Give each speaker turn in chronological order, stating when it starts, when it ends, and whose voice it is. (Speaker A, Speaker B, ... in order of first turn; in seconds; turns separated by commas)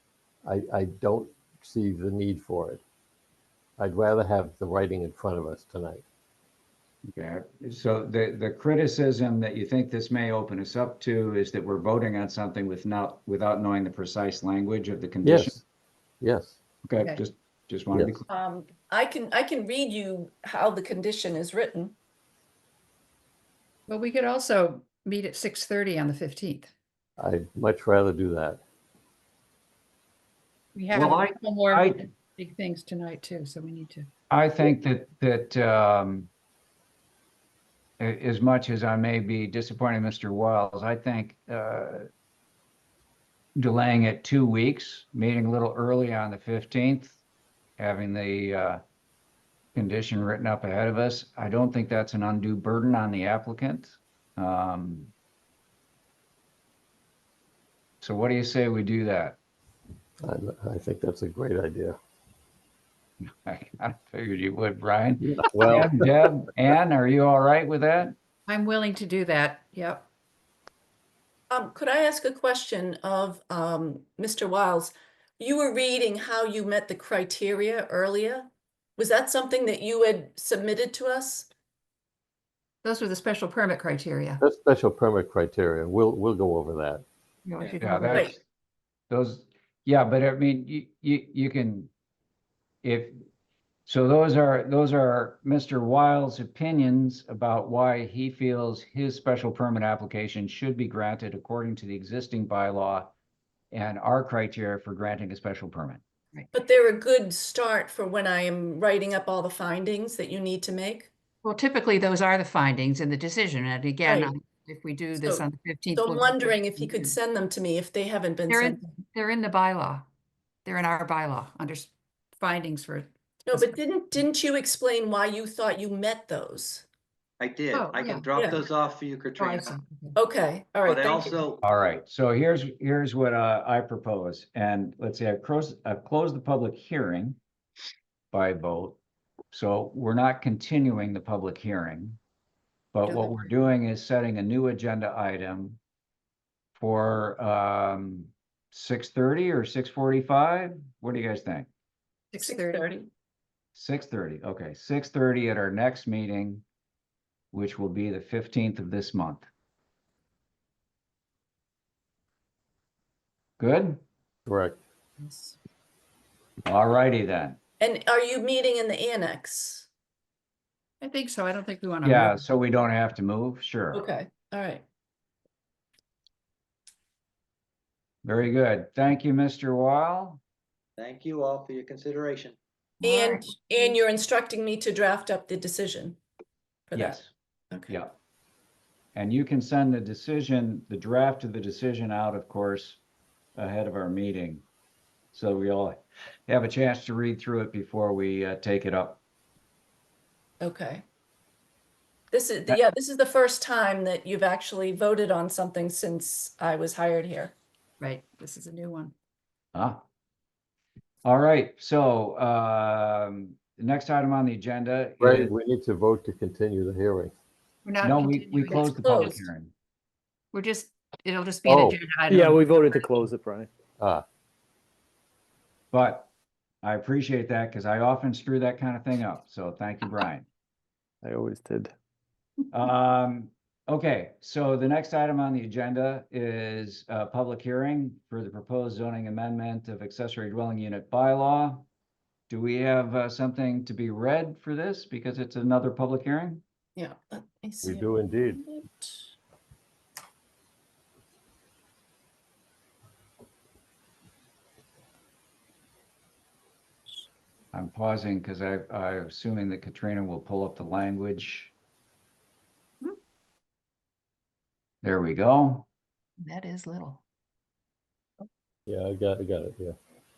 Speaker A: 0.4-2.8, Speaker A: 3.8-6.0, Speaker B: 7.1-15.6, Speaker A: 15.2-15.6, Speaker A: 16.2-16.6, Speaker B: 16.8-18.2, Speaker C: 18.3-21.9, Speaker D: 23.9-26.7, Speaker A: 27.2-28.6, Speaker D: 30.7-34.1, Speaker B: 30.9-32.0, Speaker B: 34.3-36.3, Speaker B: 38.0-42.0, Speaker B: 43.6-47.2, Speaker B: 47.8-48.8, Speaker B: 49.7-55.1, Speaker B: 58.0-59.4, Speaker A: 60.2-62.0, Speaker B: 63.2-68.1, Speaker A: 65.2-66.1, Speaker D: 68.5-70.1, Speaker C: 71.5-81.5, Speaker D: 82.8-84.4, Speaker A: 84.4-87.0, Speaker D: 87.5-88.3, Speaker B: 87.8-88.4, Speaker B: 89.1-91.9, Speaker B: 92.8-93.1, Speaker B: 93.8-103.1, Speaker B: 103.7-106.0, Speaker C: 106.5-111.1, Speaker D: 111.4-117.2, Speaker C: 114.0-114.3, Speaker C: 115.2-118.8, Speaker D: 118.5-120.0, Speaker D: 120.6-123.8, Speaker C: 123.5-126.8, Speaker E: 127.4-129.8, Speaker D: 127.7-128.3, Speaker C: 128.3-128.6, Speaker D: 129.4-130.2, Speaker C: 130.2-131.4, Speaker E: 130.8-131.6, Speaker B: 131.6-137.4, Speaker B: 138.3-139.0, Speaker B: 139.5-142.2, Speaker B: 142.9-145.8, Speaker C: 143.1-143.4, Speaker B: 146.8-151.7, Speaker D: 152.3-152.9, Speaker C: 152.4-153.1, Speaker B: 153.7-156.6, Speaker B: 157.5-159.5, Speaker B: 163.6-164.0, Speaker A: 164.5-164.8, Speaker D: 165.2-165.6, Speaker B: 166.6-167.6, Speaker C: 167.8-169.9, Speaker D: 171.0-172.4, Speaker B: 172.0-174.0, Speaker C: 173.9-174.8, Speaker B: 178.2-180.4, Speaker E: 181.0-182.6, Speaker C: 183.0-186.2, Speaker D: 183.0-183.9, Speaker C: 186.9-188.0, Speaker B: 186.9-187.3, Speaker B: 187.9-188.1, Speaker B: 189.1-193.0, Speaker B: 193.6-194.6, Speaker B: 195.3-199.2, Speaker C: 200.6-201.0, Speaker C: 202.3-207.5, Speaker D: 208.0-209.1, Speaker B: 209.7-210.0, Speaker B: 211.2-215.5, Speaker A: 215.2-217.3, Speaker D: 217.8-219.4, Speaker B: 218.0-219.7, Speaker C: 218.7-219.4, Speaker D: 220.5-223.2, Speaker A: 221.7-222.0, Speaker F: 222.3-223.7, Speaker A: 224.0-224.2, Speaker B: 225.9-226.3, Speaker B: 226.8-230.4, Speaker F: 231.2-231.9, Speaker B: 232.7-241.8, Speaker B: 242.5-246.6, Speaker C: 246.9-249.3, Speaker A: 247.8-248.6, Speaker B: 257.7-261.7, Speaker B: 265.0-265.9, Speaker D: 266.4-267.2, Speaker A: 268.9-269.9